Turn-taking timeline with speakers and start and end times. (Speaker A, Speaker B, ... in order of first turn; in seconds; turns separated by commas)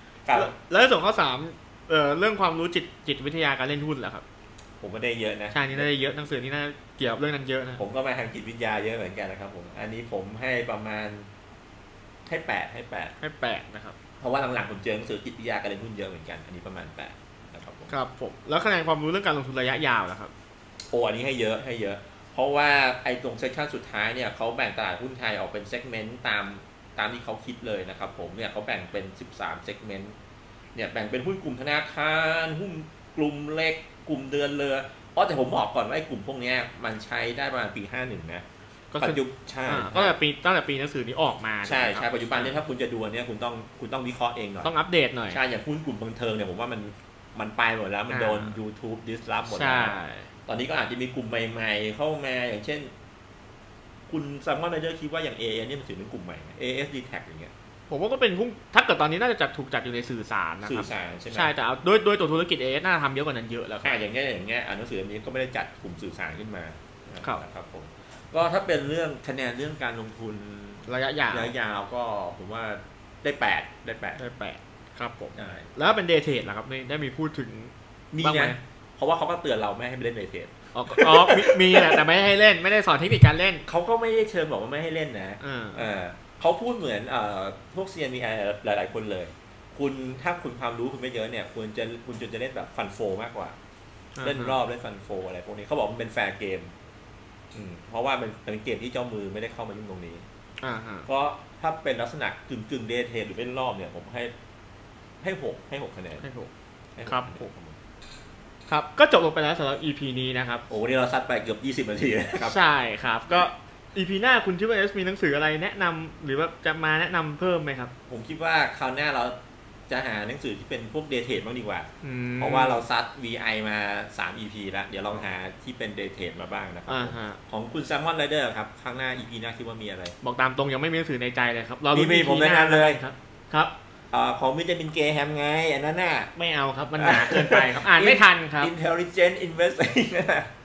Speaker A: 0.2-0.5, Speaker B: 0.3-4.2, Speaker A: 4.8-5.9, Speaker B: 5.5-7.8, Speaker A: 7.8-11.3, Speaker A: 12.2-13.1, Speaker B: 13.2-13.9, Speaker A: 14.2-17.9, Speaker B: 17.9-20.3, Speaker A: 20.9-30.1, Speaker A: 30.7-38.4, Speaker B: 38.9-42.6, Speaker A: 39.0-40.1, Speaker A: 41.6-44.7, Speaker B: 44.6-45.4, Speaker A: 45.3-50.0, Speaker B: 48.1-48.5, Speaker B: 49.5-50.3, Speaker A: 50.5-52.9, Speaker A: 54.1-57.5, Speaker B: 57.9-64.0, Speaker A: 60.6-61.5, Speaker A: 63.8-74.2, Speaker B: 70.8-71.5, Speaker B: 74.2-78.6, Speaker A: 75.3-75.7, Speaker A: 78.1-82.0, Speaker B: 80.7-83.6, Speaker A: 83.7-93.5, Speaker B: 85.4-85.9, Speaker B: 94.2-94.6, Speaker A: 94.2-96.7, Speaker A: 97.5-100.2, Speaker B: 100.6-101.1, Speaker A: 101.1-104.3, Speaker A: 105.2-106.2, Speaker B: 106.2-106.5, Speaker A: 107.0-107.8, Speaker B: 107.0-107.4, Speaker B: 108.7-110.6, Speaker A: 110.7-112.5, Speaker B: 112.4-117.9, Speaker A: 118.1-119.3, Speaker A: 119.9-121.9, Speaker B: 122.0-122.8, Speaker A: 122.4-130.1, Speaker B: 126.9-127.4, Speaker B: 130.2-133.7, Speaker A: 131.9-133.0, Speaker A: 134.1-136.3, Speaker B: 136.3-138.7, Speaker A: 137.0-140.5